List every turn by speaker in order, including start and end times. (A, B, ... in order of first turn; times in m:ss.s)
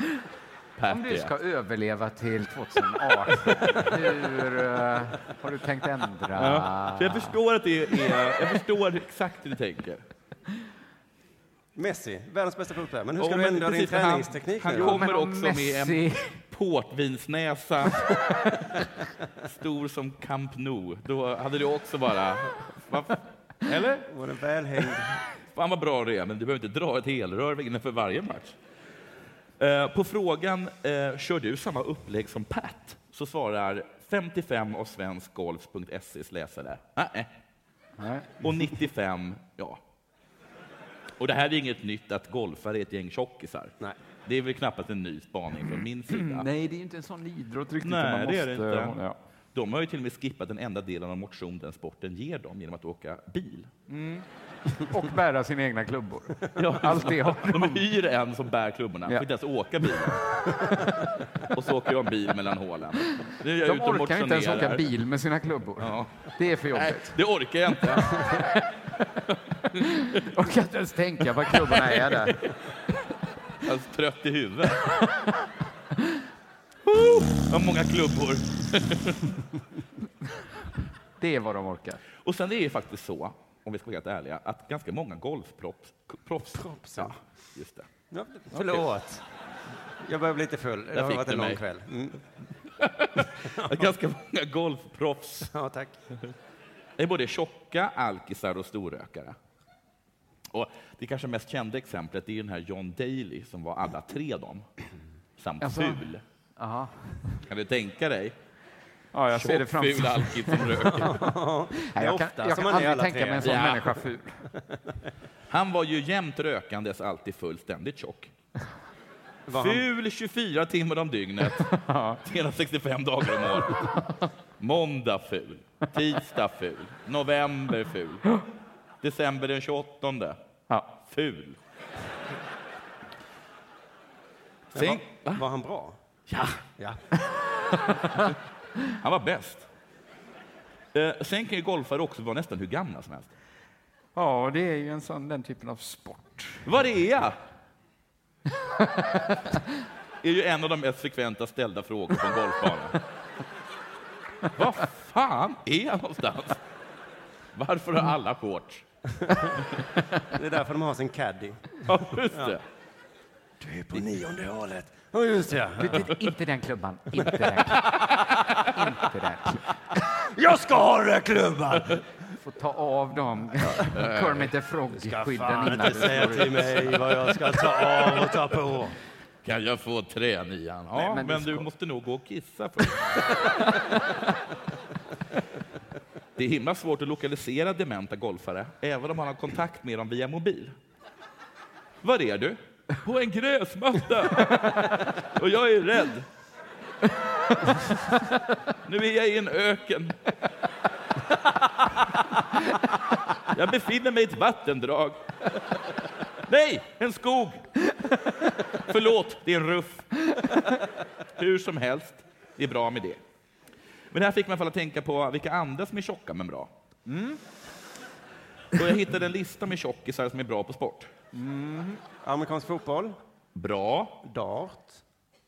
0:00.8-0:01.3 A
0:00.9-0:07.4 B
0:06.4-0:10.0 A
0:11.7-0:15.0 C
0:13.2-0:18.1 A
0:14.7-0:16.3 B
0:19.4-0:24.1 A
0:24.1-0:25.2 C
0:25.5-0:28.6 A
0:29.6-0:37.3 A
0:38.0-0:38.4 B
0:38.4-0:39.8 A
0:41.2-0:43.7 A
0:44.2-0:46.5 A
0:46.1-0:49.2 B
0:47.8-0:49.0 A
0:49.5-0:53.7 A
0:53.9-0:57.8 B
0:56.6-1:00.5 A
1:01.5-1:04.8 A
1:03.6-1:07.1 B
1:05.8-1:08.2 A
1:09.8-1:12.4 B
1:13.6-1:15.0 A
1:16.8-1:19.3 A
1:21.2-1:22.0 B
1:22.2-1:27.9 A
1:26.5-1:27.1 C
1:28.1-1:29.2 C
1:28.5-1:28.9 A
1:30.0-1:32.2 C
1:30.9-1:31.6 A
1:32.8-1:35.5 A
1:33.4-1:33.8 C
1:35.5-1:36.0 C
1:37.0-1:39.4 A
1:40.5-1:44.6 A
1:45.4-1:46.2 A
1:45.6-1:46.0 B
1:46.6-1:47.4 B
1:47.4-1:48.4 A
1:49.1-1:50.7 B
1:49.3-1:51.2 A
1:50.9-1:53.7 C
1:51.9-1:54.4 B
1:53.4-1:54.0 A
1:54.7-1:54.9 C
1:55.5-1:58.3 A
1:59.5-1:59.8 C
1:59.5-2:01.7 A
2:01.6-2:02.2 B
2:02.2-2:03.9 A
2:04.6-2:08.2 A
2:09.0-2:10.4 A
2:11.0-2:11.6 A
2:14.7-2:16.0 C
2:14.7-2:15.4 A
2:16.3-2:16.6 A
2:19.0-2:19.6 A
2:20.9-2:23.3 A
2:24.2-2:26.6 B
2:26.6-2:27.4 A
2:30.2-2:33.0 A
2:34.5-2:36.6 A
2:37.5-2:38.8 A
2:40.3-2:42.5 C
2:41.8-2:42.6 A
2:43.6-2:46.0 C
2:45.8-2:48.1 B
2:48.6-2:49.6 B
2:50.1-2:52.0 C
2:52.4-2:56.9 B
2:53.7-2:54.5 A
2:54.9-2:58.9 C
2:59.4-3:03.4 A
3:00.9-3:01.6 B
3:06.4-3:10.7 A
3:12.0-3:16.3 A
3:18.8-3:20.2 A
3:23.5-3:25.2 A
3:26.5-3:27.7 A
3:28.8-3:30.2 A
3:31.4-3:33.2 A
3:34.1-3:36.7 A
3:37.1-3:37.4 B
3:38.8-3:41.1 A
3:41.3-3:42.0 B
3:42.2-3:43.2 C
3:43.5-3:44.2 A
3:44.2-3:45.0 C